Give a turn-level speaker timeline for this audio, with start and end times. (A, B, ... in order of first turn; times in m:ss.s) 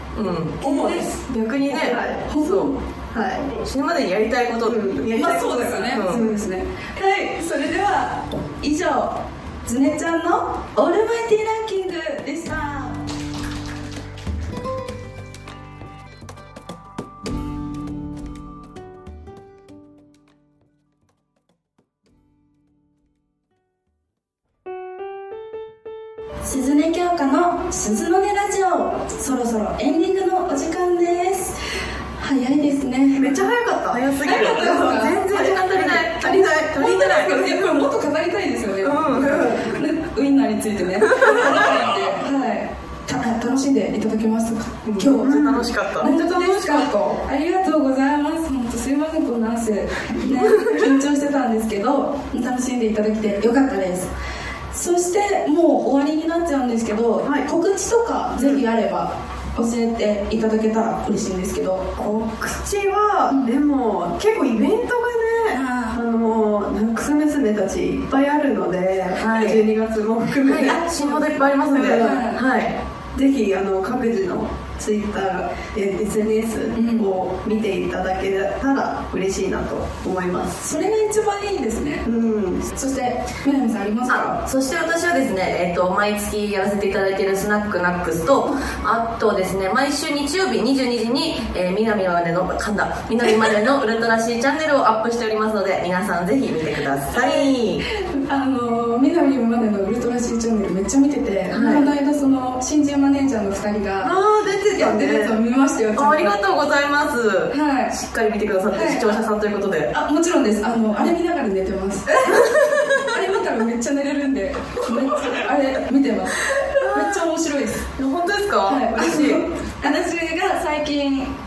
0:00.2-0:02.8 A
0:00.6-0:03.5 B
0:02.3-0:02.8 C
0:03.6-0:05.3 A
0:04.6-0:06.5 B
0:05.1-0:13.0 C
0:05.9-0:06.2 A
0:26.4-0:31.6 C
0:32.2-0:33.4 C
0:33.2-0:36.9 B
0:33.9-0:37.8 A
0:34.2-0:35.3 C
0:36.5-0:54.1 C
0:38.8-0:39.6 A
0:39.2-0:39.6 B
0:41.1-0:41.6 A
0:44.8-0:46.9 A
0:45.2-0:46.2 B
0:54.7-1:01.9 C
0:58.4-0:58.6 B
1:02.0-1:12.3 B
1:05.5-1:06.0 C
1:09.2-1:09.7 A
1:10.4-1:12.8 A
1:11.8-1:12.4 C
1:13.1-1:20.6 B
1:16.8-1:17.1 C
1:20.6-1:22.1 C
1:22.0-1:22.6 B
1:22.7-1:24.4 C
1:24.1-1:37.8 A
1:37.9-1:44.1 C
1:41.5-1:41.9 A
1:44.0-1:45.4 B
1:44.7-1:46.4 C
1:46.0-1:49.9 A
1:47.5-1:48.0 C
1:48.7-1:49.2 C
1:49.9-1:57.9 C
1:52.3-1:53.0 A
1:58.0-1:59.4 A
1:58.7-2:01.3 C